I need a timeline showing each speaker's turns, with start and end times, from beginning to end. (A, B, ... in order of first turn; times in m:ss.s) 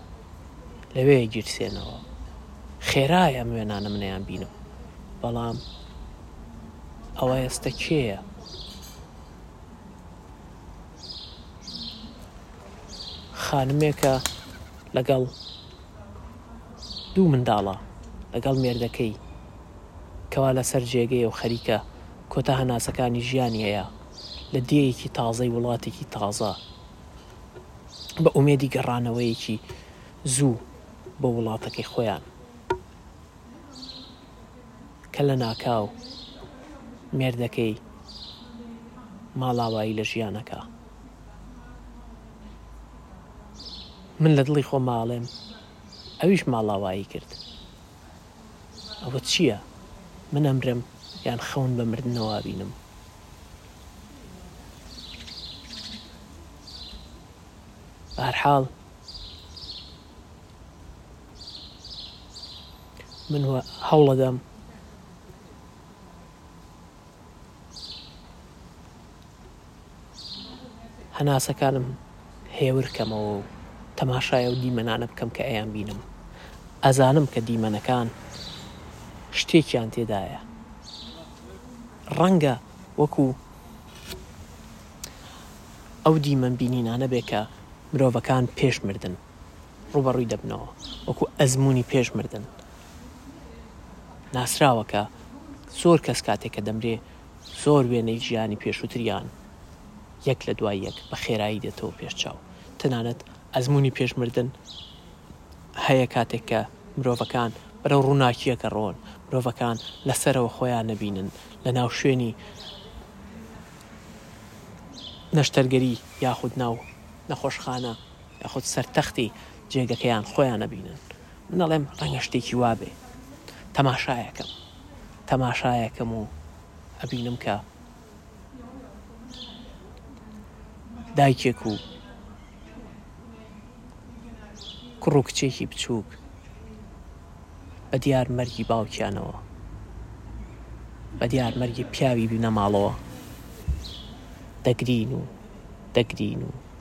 0:00.9-0:02.1 A
0:02.8-0:04.5 A
0:05.2-0:05.6 A
0:07.2-0:08.2 A
0:13.3-0:14.3 A
0:14.9-0:15.3 A
0:17.2-0:19.2 A
0:20.3-0:23.9 A
0:24.5-0:26.6 A
0:28.2-0:29.6 A
0:30.2-0:30.6 A
0:31.2-0:32.3 A
0:35.1-0:36.0 A
0:37.1-0:37.8 A
0:39.4-0:40.7 A
0:44.2-0:45.3 A
0:46.2-0:47.4 A
0:49.0-0:49.6 A
0:50.3-0:52.8 A
0:58.2-0:58.7 A
1:03.3-1:04.4 A
1:11.1-1:12.0 A
1:12.5-1:16.0 A
1:16.8-1:18.1 A
1:19.3-1:20.4 A
1:22.1-1:23.4 A
1:26.1-1:29.2 A
1:29.9-1:32.5 A
1:34.3-1:35.1 A
1:35.7-1:39.3 A
1:40.2-1:44.6 A
1:45.8-1:52.4 A
1:55.3-2:03.0 A
2:03.7-2:04.5 A
2:05.3-2:06.3 A
2:07.0-2:07.6 A
2:11.1-2:11.8 A
2:15.0-2:16.2 A
2:17.9-2:19.4 A
2:21.2-2:23.0 A
2:24.6-2:25.3 A
2:25.9-2:26.6 A